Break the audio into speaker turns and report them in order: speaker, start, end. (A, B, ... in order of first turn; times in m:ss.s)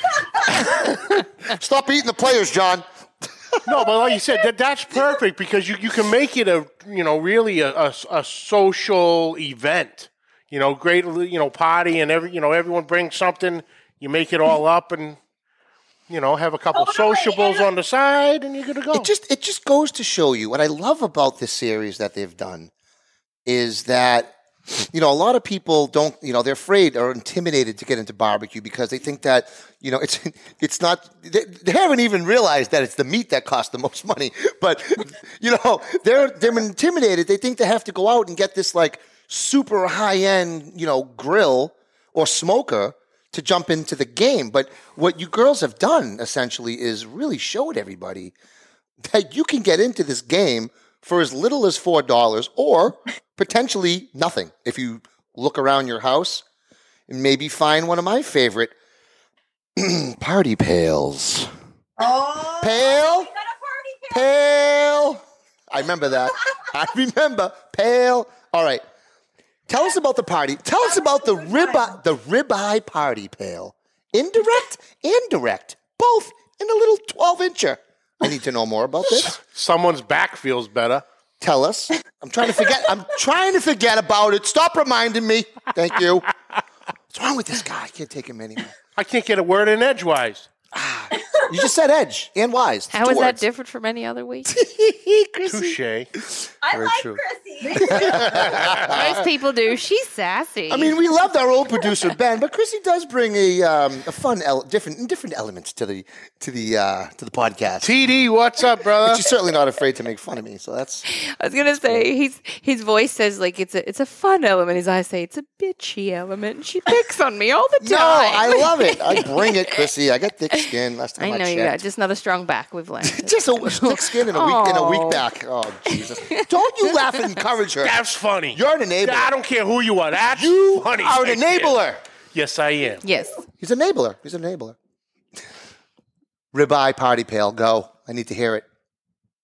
0:00.4-0:03.9 A
0:03.6-0:15.2 B
0:16.1-0:19.1 B
0:16.7-0:17.7 C
0:18.9-0:22.7 A
0:23.4-0:24.3 A
0:24.9-0:48.3 A
0:49.0-0:56.4 A
0:57.1-0:58.7 A
0:59.8-1:01.5 A
1:02.0-1:02.9 D
1:02.6-1:03.3 A
1:02.8-1:05.0 C
1:04.1-1:08.8 A
1:09.7-1:19.4 A
1:10.8-1:12.0 D
1:19.2-1:21.0 B
1:21.4-1:26.3 A
1:27.1-1:28.7 A
1:29.0-1:30.5 B
1:30.7-1:33.4 A
1:32.9-1:34.5 E
1:34.4-1:37.2 A
1:35.5-1:36.1 B
1:36.6-1:38.1 C
1:37.6-1:38.2 D
1:37.8-1:39.2 A
1:38.2-1:39.1 B
1:38.7-1:41.0 E
1:40.7-1:47.9 A
1:47.8-1:49.2 B
1:49.0-1:51.0 A
1:51.1-1:59.8 E
1:57.8-2:01.8 A
2:01.2-2:05.2 E
2:03.0-2:08.0 A
2:05.9-2:06.5 E
2:07.8-2:11.8 B
2:08.5-2:09.3 A
2:10.2-2:12.0 A
2:12.3-2:13.0 B
2:13.0-2:13.4 E
2:13.6-2:14.8 A
2:16.5-2:18.6 A